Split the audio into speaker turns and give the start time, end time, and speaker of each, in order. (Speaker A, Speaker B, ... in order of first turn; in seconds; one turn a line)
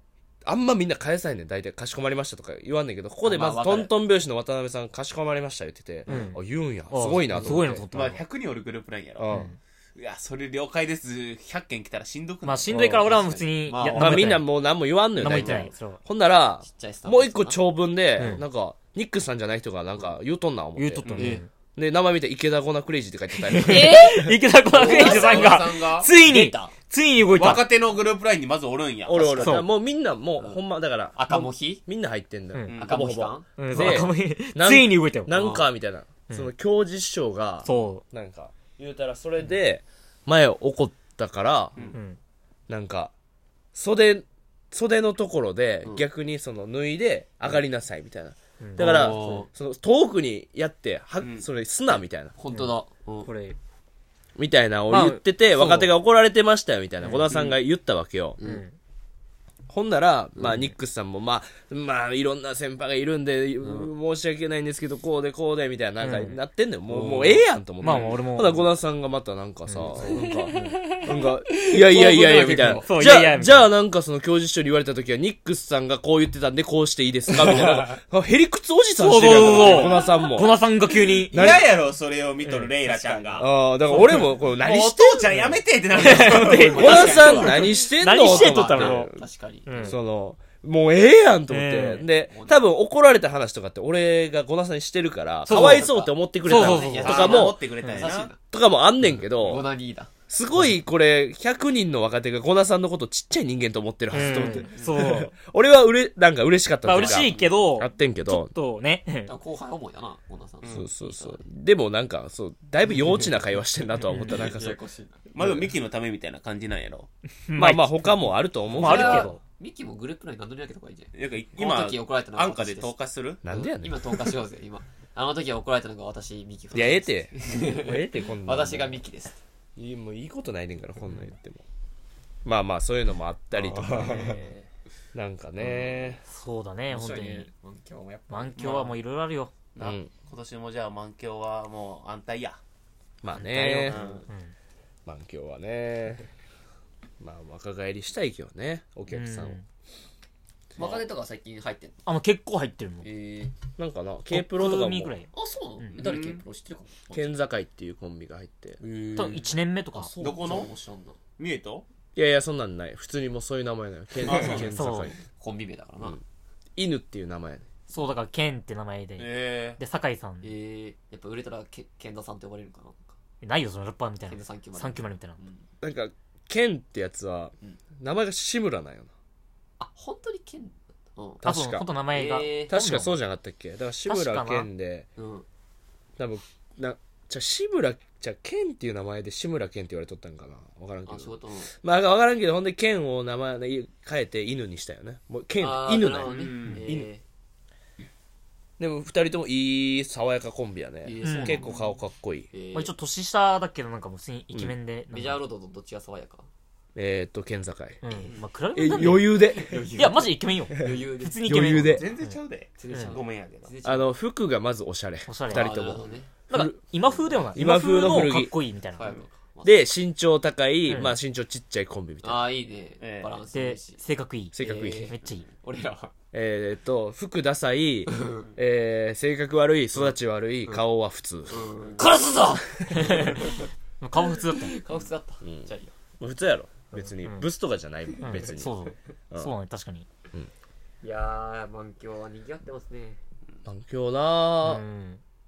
Speaker A: 0.5-7.9
Speaker B: 3.2-3.9
Speaker B: 6.1-6.3
Speaker C: 6.1-6.4
Speaker C: 6.9-8.2
Speaker B: 7.3-7.6
Speaker D: 7.9-9.3
Speaker A: 9.2-9.5
Speaker C: 9.3-9.6
Speaker D: 10.0-12.8
Speaker C: 12.4-14.5
Speaker A: 12.7-13.1
Speaker B: 12.7-14.4
Speaker A: 13.9-24.4
Speaker C: 15.2-16.0
Speaker B: 15.2-15.7
Speaker B: 16.6-17.6
Speaker C: 18.2-18.4
Speaker C: 20.8-21.5
Speaker B: 21.0-21.4
Speaker C: 23.5-27.6
Speaker B: 23.5-26.7
Speaker D: 24.7-26.1
Speaker D: 27.3-29.6
Speaker A: 29.1-41.8
Speaker C: 29.4-29.7
Speaker B: 30.4-30.6
Speaker B: 31.1-31.8
Speaker D: 32.7-33.0
Speaker B: 32.7-34.0
Speaker C: 33.6-35.4
Speaker B: 35.3-35.7
Speaker C: 37.6-38.0
Speaker C: 41.9-42.2
Speaker A: 42.7-43.1
Speaker A: 43.7-52.3
Speaker C: 48.6-49.5
Speaker B: 48.8-49.5
Speaker D: 51.2-51.5
Speaker B: 52.4-53.3
Speaker C: 52.5-53.6
Speaker A: 54.4-58.4
Speaker C: 54.9-55.9
Speaker B: 57.2-57.5
Speaker B: 58.4-58.6
Speaker C: 58.4-58.8
Speaker A: 59.7-80.6
Speaker B: 60.4-60.7
Speaker B: 63.6-63.9
Speaker C: 66.0-66.4
Speaker B: 66.9-67.5
Speaker C: 67.8-68.7
Speaker C: 69.7-70.8
Speaker B: 69.9-72.9
Speaker C: 72.7-73.7
Speaker B: 77.3-78.0
Speaker C: 79.0-81.7
Speaker B: 79.3-80.2
Speaker A: 81.3-81.7
Speaker D: 81.3-83.5
Speaker C: 82.5-83.3
Speaker B: 82.9-83.4
Speaker A: 83.4-85.5
Speaker C: 83.9-84.3
Speaker D: 84.5-87.5
Speaker C: 85.3-89.1
Speaker B: 86.0-90.0
Speaker A: 86.7-89.2
Speaker C: 89.7-90.0
Speaker A: 89.8-97.6
Speaker C: 91.5-92.1
Speaker B: 92.3-92.6
Speaker C: 95.5-95.9
Speaker B: 95.5-98.4
Speaker C: 96.4-97.3
Speaker D: 96.6-98.3
Speaker A: 98.5-99.7
Speaker B: 99.0-100.1
Speaker A: 100.3-108.5
Speaker C: 104.1-105.3
Speaker C: 106.8-109.3
Speaker D: 107.0-107.5
Speaker B: 109.3-111.4
Speaker A: 110.7-114.8
Speaker B: 112.9-113.4
Speaker B: 114.1-115.2
Speaker D: 115.3-117.1
Speaker A: 115.4-115.7
Speaker C: 117.5-119.4
Speaker A: 117.6-119.3
Speaker B: 118.7-123.0
Speaker D: 121.1-123.4
Speaker A: 123.4-124.2
Speaker B: 123.5-129.4
Speaker A: 126.7-129.0
Speaker A: 129.8-131.6
Speaker A: 132.4-134.4
Speaker B: 133.5-134.7
Speaker A: 135.1-136.2
Speaker B: 135.6-136.2
Speaker C: 136.3-137.5
Speaker B: 136.9-138.9
Speaker C: 138.3-139.5
Speaker D: 139.8-142.6
Speaker A: 139.8-140.1
Speaker A: 143.2-144.0
Speaker C: 143.3-144.5
Speaker B: 143.9-144.2
Speaker D: 143.9-144.2
Speaker A: 145.1-146.3
Speaker A: 147.2-149.6
Speaker C: 149.1-149.7
Speaker B: 150.8-152.0
Speaker C: 152.1-153.1
Speaker B: 153.0-153.6
Speaker A: 153.8-155.1
Speaker C: 154.3-155.3
Speaker B: 155.3-157.4
Speaker D: 155.9-156.4
Speaker A: 157.1-158.8
Speaker B: 158.8-161.2
Speaker C: 159.2-160.1
Speaker D: 160.2-160.7
Speaker D: 161.4-161.8
Speaker A: 162.2-165.2
Speaker D: 164.2-164.7
Speaker B: 164.3-164.7
Speaker C: 164.7-165.2
Speaker B: 165.3-166.2
Speaker A: 166.8-167.7
Speaker C: 167.9-170.5
Speaker D: 169.2-169.8
Speaker B: 170.4-173.1
Speaker C: 173.4-175.4
Speaker B: 174.3-175.6
Speaker A: 175.8-179.1
Speaker B: 179.8-181.4
Speaker A: 181.4-181.9
Speaker C: 181.4-183.2
Speaker B: 182.1-182.7
Speaker A: 182.7-185.1
Speaker C: 184.1-184.7
Speaker B: 185.2-185.4
Speaker A: 186.2-197.1
Speaker B: 191.1-191.7
Speaker B: 195.6-197.2
Speaker D: 196.2-196.9
Speaker A: 198.8-202.5
Speaker B: 201.0-201.9
Speaker C: 201.2-201.6
Speaker B: 202.5-202.9
Speaker C: 202.7-205.4
Speaker B: 205.1-206.5
Speaker A: 206.9-208.0
Speaker C: 208.0-212.3
Speaker A: 208.7-209.9
Speaker B: 209.0-211.9
Speaker A: 211.4-212.1
Speaker D: 211.9-213.7
Speaker B: 212.8-214.1
Speaker C: 212.9-213.2
Speaker A: 213.8-216.8
Speaker C: 215.3-215.8
Speaker B: 215.5-216.3
Speaker C: 216.5-219.1
Speaker A: 217.5-218.6
Speaker B: 219.0-219.8
Speaker A: 219.6-222.5
Speaker C: 220.9-221.2
Speaker B: 222.2-224.0
Speaker D: 223.0-223.4
Speaker C: 223.5-225.4
Speaker A: 224.5-225.1
Speaker B: 224.6-226.1
Speaker A: 226.3-231.7
Speaker B: 228.1-228.5
Speaker B: 231.5-233.6
Speaker D: 231.9-232.1
Speaker C: 232.9-234.8
Speaker B: 234.2-235.5
Speaker A: 235.4-235.7
Speaker A: 236.2-238.7
Speaker C: 238.2-240.1
Speaker B: 241.0-243.2
Speaker A: 243.7-244.8
Speaker C: 244.6-245.2